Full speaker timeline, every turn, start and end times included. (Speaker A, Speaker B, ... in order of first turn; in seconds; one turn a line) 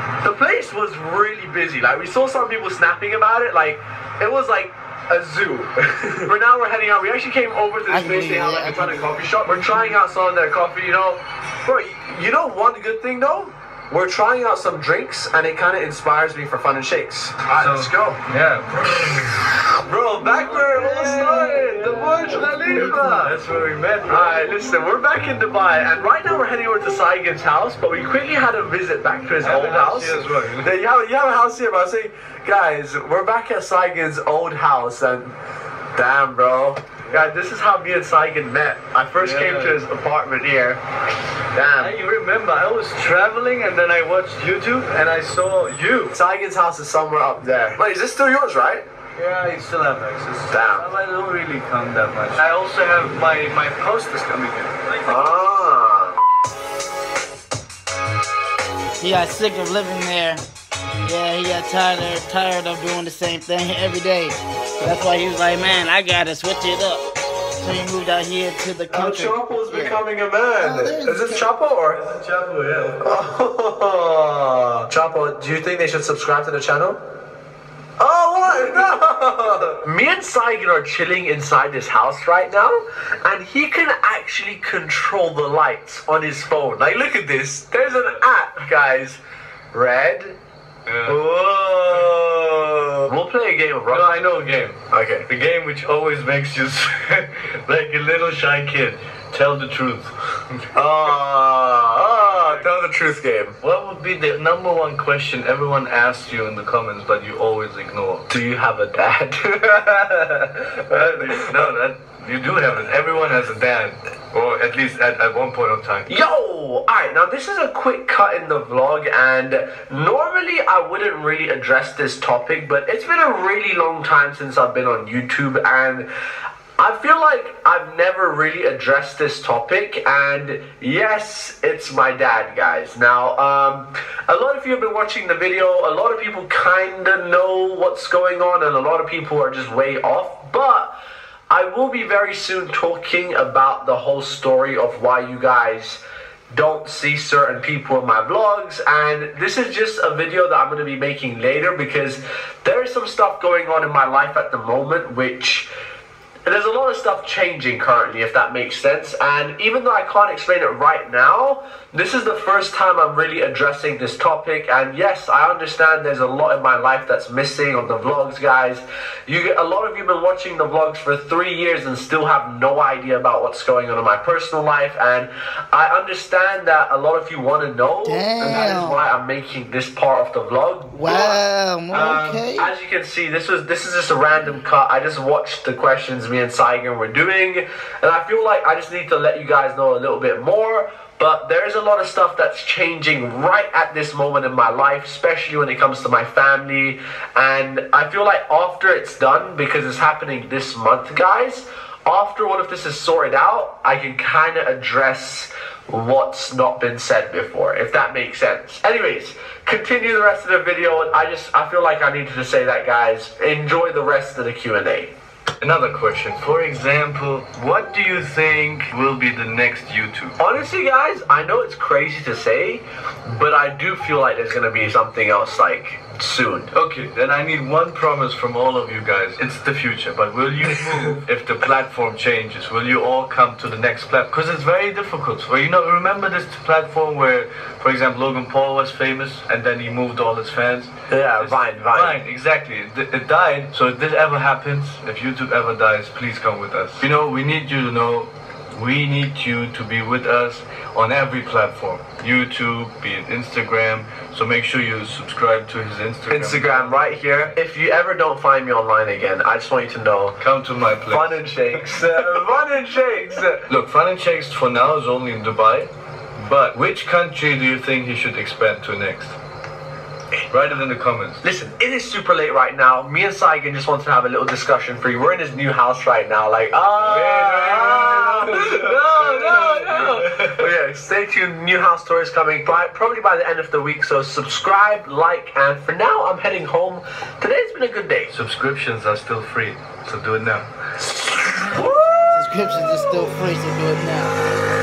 Speaker A: 0.2-18.2
Speaker B: 7.9-9.1
Speaker C: 17.5-19.4
Speaker A: 19.8-23.4
Speaker C: 20.3-24.4
Speaker A: 24.1-35.3
Speaker C: 29.4-30.7
Speaker A: 36.0-40.8
Speaker C: 39.2-39.8
Speaker A: 41.5-42.0
Speaker C: 41.8-46.2
Speaker A: 46.1-48.8
Speaker C: 49.1-55.0
Speaker A: 50.5-50.9
Speaker A: 55.0-56.2
Speaker B: 59.0-60.4
Speaker B: 61.0-67.0
Speaker B: 67.6-70.0
Speaker A: 68.9-72.0
Speaker B: 70.6-71.4
Speaker C: 71.9-73.0
Speaker A: 73.0-77.0
Speaker A: 78.0-79.0
Speaker C: 78.7-79.7
Speaker A: 79.7-89.2
Speaker C: 87.8-88.2
Speaker A: 89.7-90.4
Speaker C: 90.8-91.2
Speaker A: 91.0-92.1
Speaker C: 91.8-93.1
Speaker A: 93.1-94.1
Speaker C: 93.9-100.1
Speaker A: 94.9-95.3
Speaker A: 100.7-103.5
Speaker C: 102.3-102.7
Speaker C: 103.6-108.3
Speaker A: 108.3-111.7
Speaker C: 110.9-116.1
Speaker A: 116.1-126.1
Speaker A: 126.8-140.9
Speaker A: 141.5-146.0
Speaker A: 146.5-155.7
Speaker A: 156.4-215.1
Speaker B: 178.1-179.0
Speaker B: 180.9-182.7
Speaker C: 215.6-220.4
Speaker A: 220.4-226.7
Speaker C: 226.7-257.5
Speaker A: 241.1-242.2
Speaker A: 256.3-260.4
Speaker C: 260.4-262.3
Speaker A: 261.1-263.6
Speaker C: 263.6-269.3
Speaker C: 270.5-271.4
Speaker A: 271.4-288.3
Speaker C: 277.0-280.6
Speaker C: 288.3-290.7
Speaker A: 291.4-293.3
Speaker B: 292.3-294.4